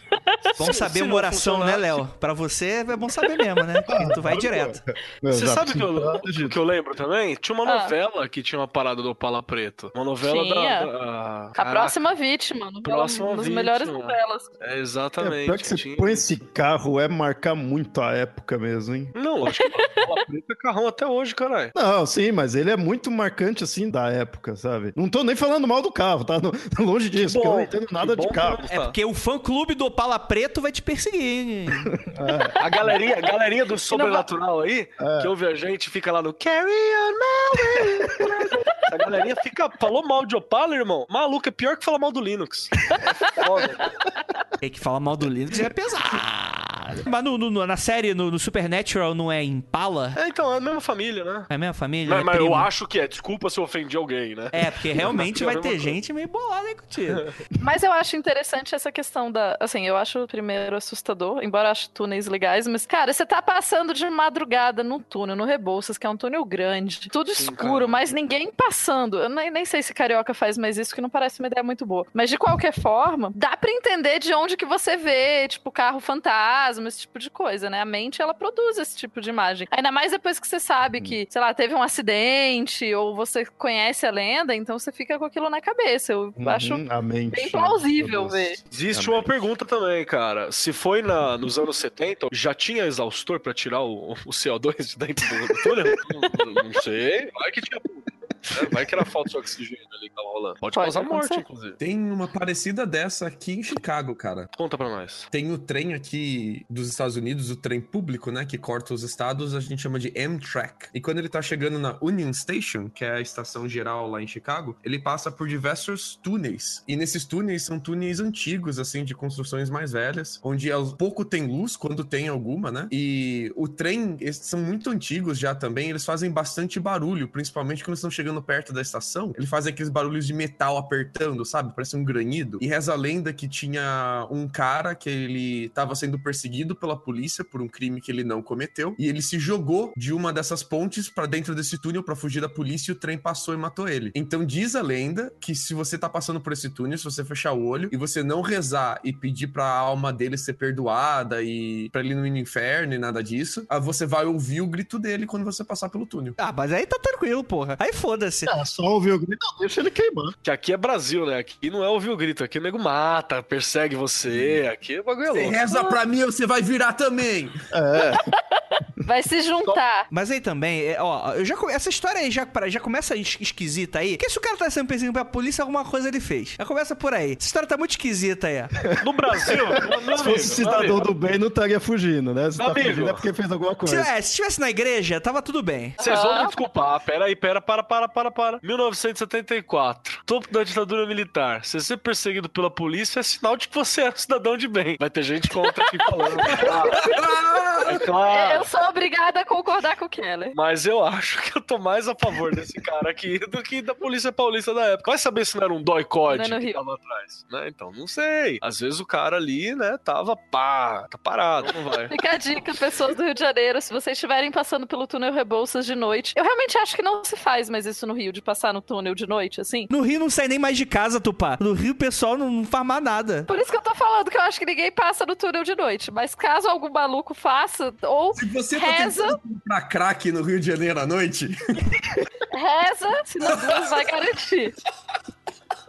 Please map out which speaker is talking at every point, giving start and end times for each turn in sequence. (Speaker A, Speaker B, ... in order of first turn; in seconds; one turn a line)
Speaker A: 0.6-4.8
Speaker B: 0.6-2.0
Speaker C: 3.9-6.5
Speaker B: 5.3-12.1
Speaker D: 7.6-7.9
Speaker D: 10.2-10.9
Speaker D: 11.6-14.5
Speaker B: 12.8-16.2
Speaker C: 15.2-19.1
Speaker B: 19.1-21.7
Speaker D: 19.5-20.2
Speaker C: 21.7-28.6
Speaker B: 27.1-28.9
Speaker A: 28.7-31.9
Speaker C: 32.0-32.9
Speaker B: 32.5-42.8
Speaker D: 33.9-34.3
Speaker C: 35.0-35.3
Speaker D: 43.0-43.9
Speaker B: 43.4-43.9
Speaker A: 44.6-50.2
Speaker B: 50.1-51.5
Speaker A: 51.5-52.7
Speaker B: 52.0-55.9
Speaker A: 54.5-57.3
Speaker B: 57.1-57.3
Speaker D: 57.6-88.6
Speaker B: 67.3-68.0
Speaker C: 86.4-89.3
Speaker B: 88.7-101.8
Speaker D: 100.8-101.4
Speaker E: 101.8-104.5
Speaker B: 104.5-105.3
Speaker E: 105.3-156.4
Speaker A: 156.4-158.5
Speaker C: 158.5-160.3
Speaker B: 160.4-165.6
Speaker C: 164.3-164.6
Speaker E: 165.3-167.6
Speaker D: 165.7-166.0
Speaker C: 167.7-168.3
Speaker D: 168.1-170.1
Speaker A: 170.1-178.7
Speaker B: 179.0-181.1
Speaker C: 179.4-184.1
Speaker B: 182.6-183.2
Speaker A: 183.8-186.0
Speaker D: 186.0-186.6
Speaker B: 186.0-197.1
Speaker D: 195.7-197.2
Speaker E: 196.6-198.0
Speaker B: 197.8-198.7
Speaker D: 198.3-200.6
Speaker B: 200.5-212.2
Speaker D: 206.3-206.8
Speaker D: 212.1-219.9
Speaker A: 219.9-223.5
Speaker D: 223.5-229.4
Speaker E: 228.3-232.3
Speaker D: 232.5-234.7
Speaker E: 233.4-234.1